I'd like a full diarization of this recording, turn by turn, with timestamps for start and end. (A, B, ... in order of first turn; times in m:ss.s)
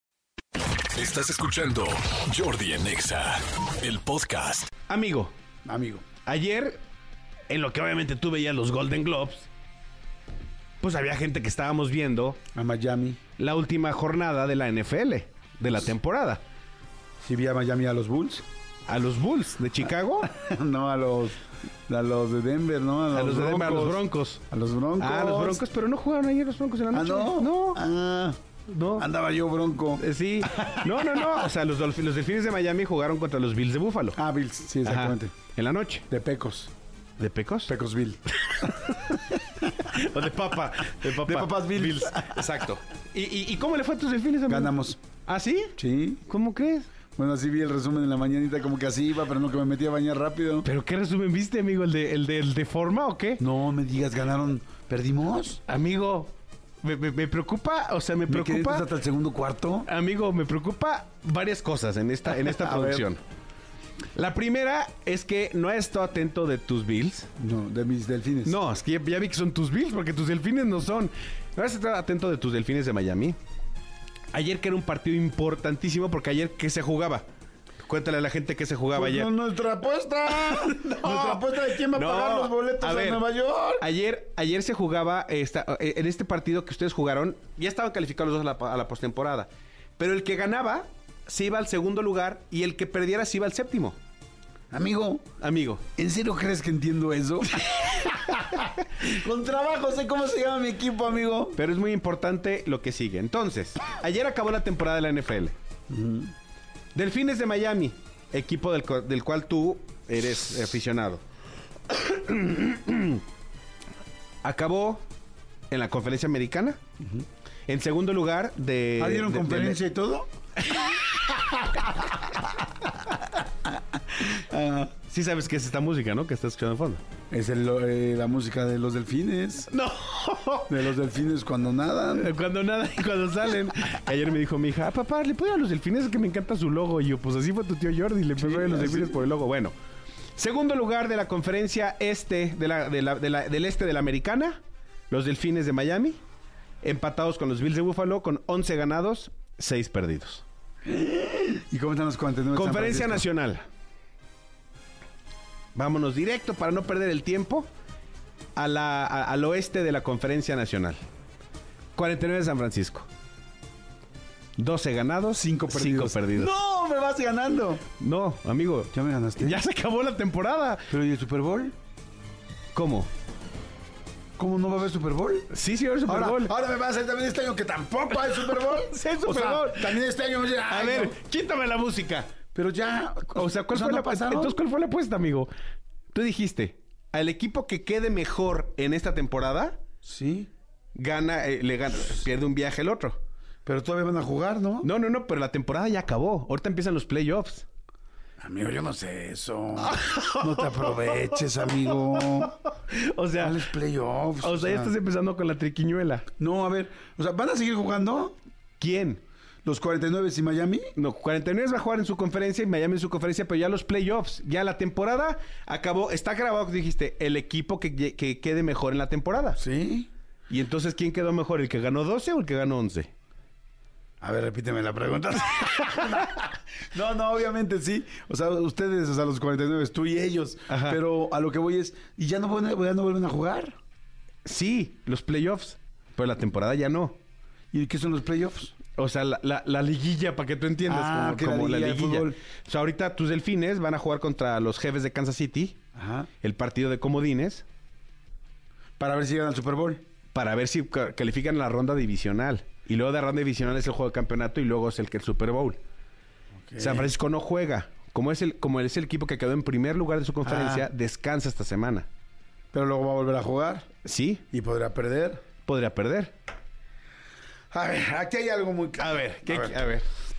0:01.0-0:04.7 A
0:04.9-0:05.3 B
0:05.6-0:06.0 C
0:06.2-0:06.8 B
0:07.5-0:09.5 B
0:10.8-0:12.4 B
0:12.5-0:13.2 C
0:13.4-0:16.4 B
0:17.2-0:18.4 C
0:18.9-0:20.3 B
0:20.2-0:25.6 C
0:23.1-0:24.4 B
0:25.0-0:27.8 B
0:26.9-0:28.4 C
0:28.7-0:29.1 B
0:29.0-0:31.5 C
0:30.0-0:34.2 B
0:34.2-0:35.3 C
0:34.8-0:36.0 B
0:36.1-0:36.7 C
0:37.2-0:37.7 B
0:37.7-0:38.9 C
0:38.5-0:44.7 B
0:41.0-0:42.6 C
0:44.5-0:45.0 C
0:45.3-0:46.9 B
0:45.8-0:46.2 C
0:47.2-0:50.7 C
0:50.6-0:53.4 B
0:53.4-0:55.6 C
0:55.7-0:58.9 B
0:58.3-0:59.9 C
0:59.8-1:03.2 B
1:02.3-1:03.1 C
1:04.1-1:07.3 B
1:07.4-1:08.6 C
1:08.4-1:13.4 B
1:14.3-1:17.2 B
1:17.8-1:19.3 B
1:18.9-1:23.8 C
1:20.3-1:23.2 B
1:23.8-1:34.0 B
1:34.7-1:35.2 C
1:35.4-1:35.8 B
1:36.0-1:41.6 C
1:37.6-1:38.2 B
1:41.6-1:45.5 B
1:45.9-1:46.3 C
1:46.9-1:51.2 B
1:51.9-1:53.2 B
1:54.4-1:55.0 B
1:55.7-1:56.8 B
1:57.7-1:59.8 B
1:59.0-2:00.3 C
2:00.7-2:01.5 B
2:04.2-2:04.9 C
2:05.1-2:07.0 B
2:07.3-2:09.7 C
2:09.7-2:10.9 B
2:10.7-2:12.3 C
2:12.1-2:19.7 B
2:18.4-2:19.2 C
2:20.4-2:26.2 B
2:26.8-2:30.4 B
2:30.8-2:33.3 C
2:32.5-2:33.7 B
2:35.8-2:37.7 B
2:38.6-2:41.0 B
2:41.9-2:43.1 B
2:44.6-2:46.6 B
2:45.3-2:47.8 C
2:48.0-2:50.9 B
2:48.9-2:49.6 C
2:50.9-2:51.7 C
2:52.7-2:53.1 B
2:54.4-2:55.5 C
2:55.5-2:56.5 B
2:56.0-3:01.2 C
2:58.5-3:00.0 B
3:00.7-3:02.3 B
3:02.6-3:04.6 C
3:03.3-3:05.5 B
3:06.1-3:09.8 B
3:10.0-3:10.5 C
3:10.9-3:13.2 B
3:13.7-3:14.9 C
3:14.8-3:17.7 B
3:18.4-3:22.5 C
3:19.8-3:23.7 B
3:23.4-3:24.9 C
3:24.4-3:26.2 B
3:26.4-3:28.4 C
3:28.8-3:29.2 B
3:29.6-3:30.9 C
3:30.9-3:39.6 B
3:39.6-3:40.1 C
3:40.5-3:43.1 B
3:44.2-3:53.8 C
3:50.7-3:51.0 B
3:54.4-3:57.2 B
3:57.7-3:58.7 C
3:59.0-4:05.8 B
4:00.9-4:02.4 C
4:05.9-4:06.3 C
4:06.4-4:07.6 B
4:09.0-4:10.0 C
4:10.3-4:15.8 B
4:16.7-4:17.1 C
4:16.8-4:22.1 B
4:20.4-4:20.9 C
4:22.7-4:23.9 C
4:24.0-4:24.4 B
4:24.5-4:25.4 C
4:25.6-4:26.3 B
4:27.7-4:29.8 C
4:29.0-4:30.1 B